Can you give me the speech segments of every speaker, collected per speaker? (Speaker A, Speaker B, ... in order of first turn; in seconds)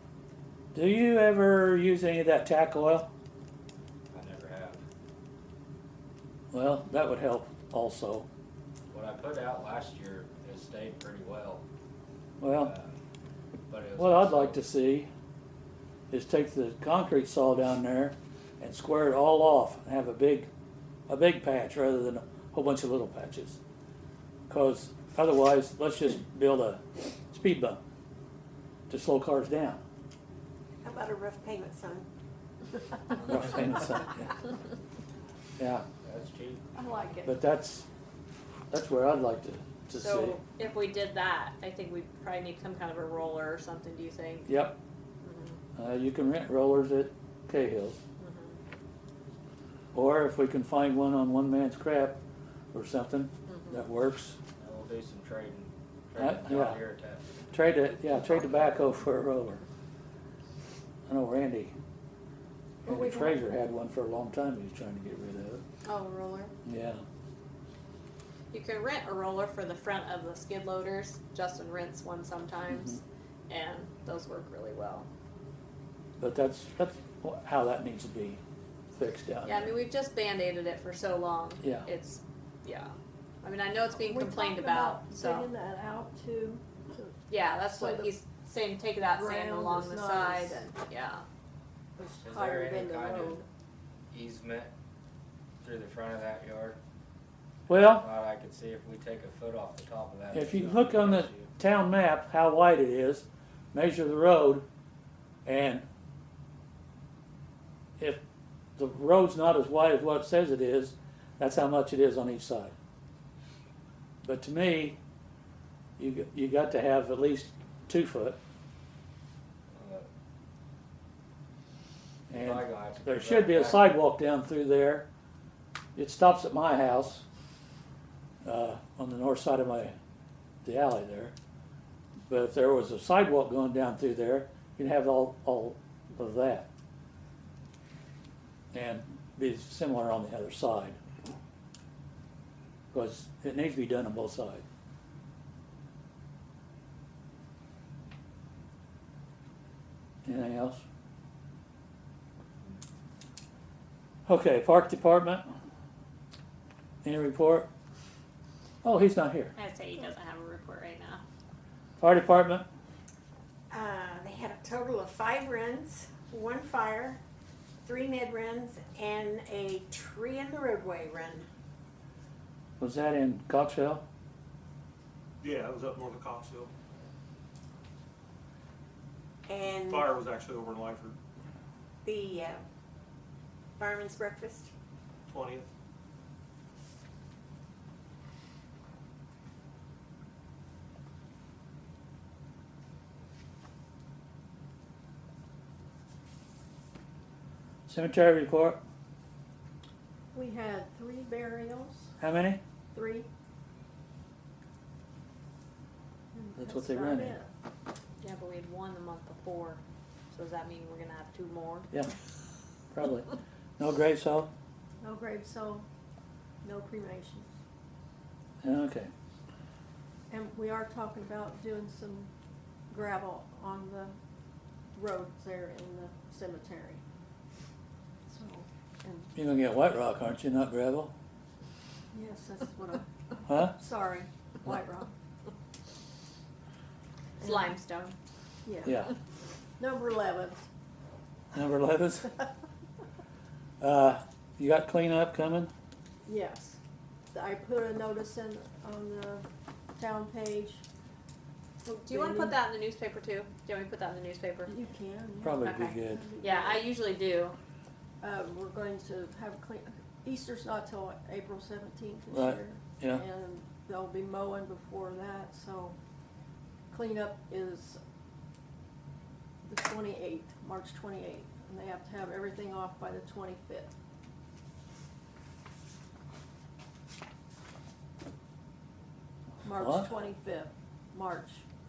Speaker A: 0.7-3.1, 6.5-8.3, 12.4-12.7, 14.0-15.1, 16.1-20.5, 21.1-23.6, 24.5-27.8, 28.9-29.8, 33.1-34.3, 35.6-35.8, 37.2-37.9, 38.7-40.4, 44.5-44.8, 45.8-48.0, 49.9-52.2, 52.7-54.4, 56.2-56.8, 57.5-59.6, 61.0-61.7, 62.8-65.6, 66.7-67.0, 72.7-73.0, 76.2-78.4, 78.9-79.8, 81.6-81.9, 97.7-98.1, 100.3-104.7, 105.4-105.8, 108.8-112.7, 114.2-115.0, 116.0-118.4, 122.3-125.1, 125.9-127.2, 128.4-129.9, 130.6-131.3, 132.3-136.7, 138.7-141.0, 142.9-144.6, 150.2-150.8, 154.2-155.5, 157.0-157.7, 158.8-159.5, 162.0-162.7, 172.8-174.0, 197.9-198.8, 202.2-202.6, 206.6-207.3, 212.9-214.5, 218.6-219.1, 229.3-231.1, 233.5-233.7, 238.8-239.1, 241.5-242.3, 243.8-245.7, 255.4-256.3, 262.3-263.2, 279.7-280.1
Speaker B: 4.1-4.8, 8.9-11.6, 12.5-13.0, 13.7-14.6, 36.0-36.6, 54.6-57.3, 92.2-93.4, 94.1-94.7, 95.6-96.8, 97.7-101.5, 119.7-120.1, 122.3-123.9
Speaker C: 30.8-32.1, 163.7-167.2, 167.8-171.5, 179.5-180.1, 182.0-182.6, 183.8-184.7
Speaker D: 36.8-37.3, 62.9-63.3, 65.8-66.5, 83.9-88.1, 89.1-90.7, 92.0-93.4, 200.3-202.1, 202.9-203.3, 206.3-207.5, 215.0-215.8, 216.6-217.5, 220.3-222.3, 222.9-224.2, 224.9-227.0, 228.3-229.3, 232.1-235.1, 238.6-239.0, 239.8-240.6, 246.2-246.8, 247.3-250.8, 252.1-252.6, 254.7-256.9, 258.2-265.9, 266.9-268.0, 269.6-273.9, 279.6-281.6
Speaker E: 39.9-44.5, 45.2-45.6, 48.2-48.6, 53.5-53.8, 68.5-75.1, 79.4-85.5, 87.3-91.2, 159.6-161.2, 208.2-211.9, 237.4-238.1, 251.8-254.7, 255.6-257.6
Speaker F: 175.4-176.7, 179.9-181.2, 185.3-185.7